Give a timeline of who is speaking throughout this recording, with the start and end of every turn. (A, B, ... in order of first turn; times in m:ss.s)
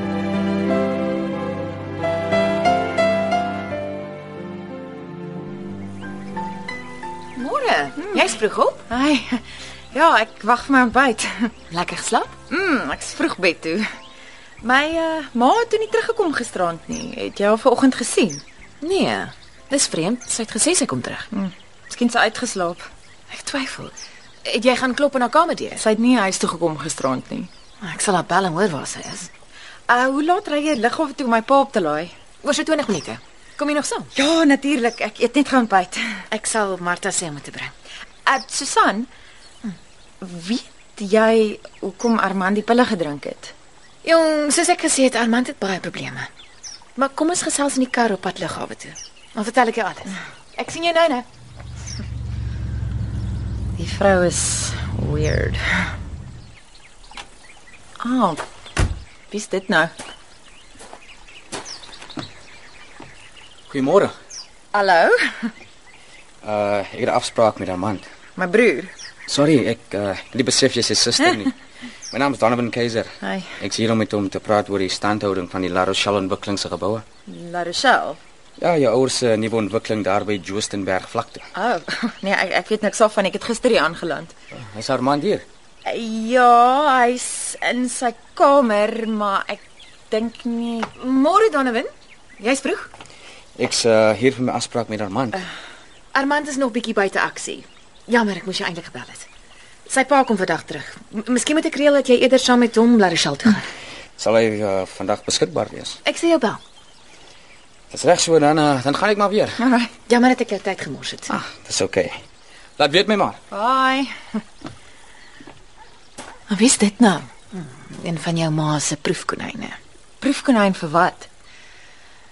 0:07.4-0:08.8 A
0:08.0-0:08.4 B
0:08.9-0:11.5 B
0:11.7-0:12.4 A
0:12.5-0:13.8 B
0:14.6-0:18.4 B
0:18.8-0:21.3 A
0:21.3-0:22.9 B
0:23.3-0:23.9 A
0:24.4-0:25.8 A
0:25.8-0:27.5 B
0:27.8-0:29.3 A
0:29.9-0:32.1 B
0:32.4-0:34.1 A
0:34.1-0:36.2 B
0:36.3-0:37.7 A
0:38.2-0:39.1 B
0:40.2-0:43.5 B
0:44.0-0:46.3 A
0:47.0-0:51.2 A
0:53.8-0:55.9 B
0:58.0-0:58.4 B
0:59.3-0:59.9 B
1:03.7-1:04.1 C
1:04.7-1:05.5 B
1:06.4-1:08.0 C
1:08.4-1:08.9 B
1:09.3-1:11.5 C
1:12.1-1:17.0 C
1:13.2-1:13.5 B
1:17.3-1:18.2 B
1:18.6-1:21.5 C
1:21.5-1:24.3 B
1:24.7-1:25.4 C
1:25.8-1:30.9 B
1:31.0-1:32.9 A
1:33.6-1:35.4 C
1:36.1-1:39.3 A
1:39.9-1:43.6 A
1:44.2-1:46.0 C
1:46.0-1:46.6 A
1:47.9-1:49.6 C
1:49.6-1:49.9 B
1:50.0-1:51.3 A
1:51.3-1:52.2 C
1:52.8-1:53.4 C
1:53.5-1:54.1 B
1:56.5-1:59.8 A
2:00.2-2:01.3 B